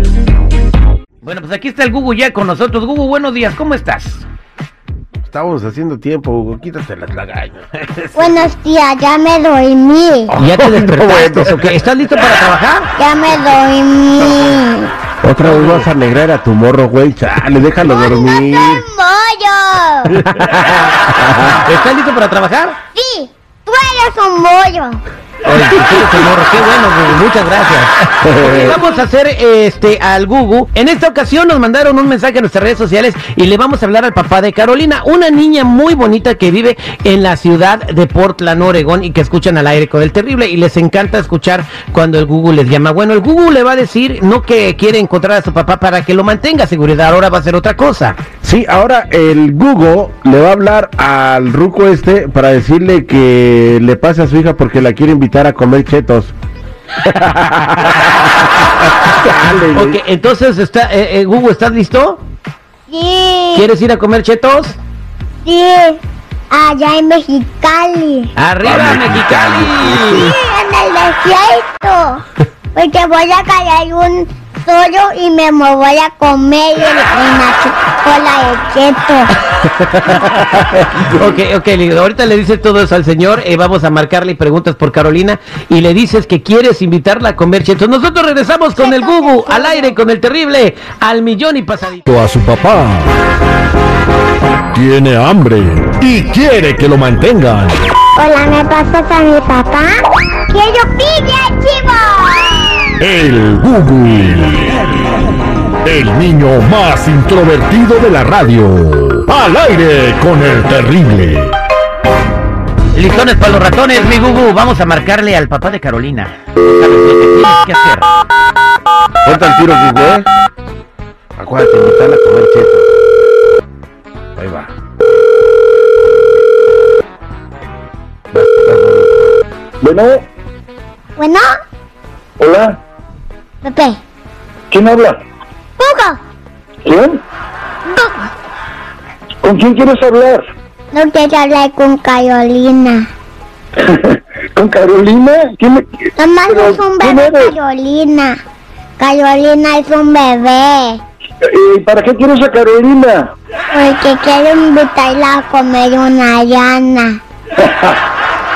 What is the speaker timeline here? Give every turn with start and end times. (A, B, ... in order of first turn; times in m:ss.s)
0:01.2-0:04.2 A
0:05.2-0:07.8 B
0:08.0-0:08.4 A
0:08.2-0:10.3 C
0:10.3-0:11.7 B
0:10.4-0:12.9 A
0:13.0-0:14.9 C
0:15.2-0:18.8 B
0:15.5-0:15.8 A
0:17.9-0:20.1 C
0:20.1-0:21.6 B
0:21.6-0:22.8 A
0:22.9-0:25.0 C
0:25.4-0:48.2 A
0:28.2-0:28.8 B
0:48.4-0:56.3 B
0:57.0-1:00.0 B
0:59.7-1:02.2 A
1:02.9-1:03.7 C
1:03.5-1:04.8 A
1:05.4-1:08.3 C
1:08.4-1:10.3 A
1:08.6-1:10.3 B
1:10.2-1:19.3 C
1:20.0-1:32.1 A
1:20.4-1:21.0 B
1:28.8-1:29.9 C
1:32.1-1:33.1 D
1:34.7-1:37.8 D
1:38.2-1:42.9 C
1:43.0-1:44.8 D
1:45.8-1:51.5 D
1:52.9-1:58.1 A
1:59.2-2:00.3 B
2:01.4-2:02.9 B
2:04.4-2:04.7 B
2:08.3-2:09.1 B
2:09.8-2:10.2 E
2:11.2-2:11.5 C
2:12.4-2:12.8 E
2:13.6-2:14.0 C
2:14.7-2:15.2 E
2:15.8-2:16.2 C
2:16.8-2:17.2 E
2:17.8-2:18.3 C
2:19.4-2:20.4 E
2:20.9-2:23.1 C
2:23.8-2:27.5 E
2:26.2-2:28.4 C
2:29.0-2:31.0 C
2:31.4-2:33.3 E
2:33.7-2:37.2 C
2:37.6-2:38.0 E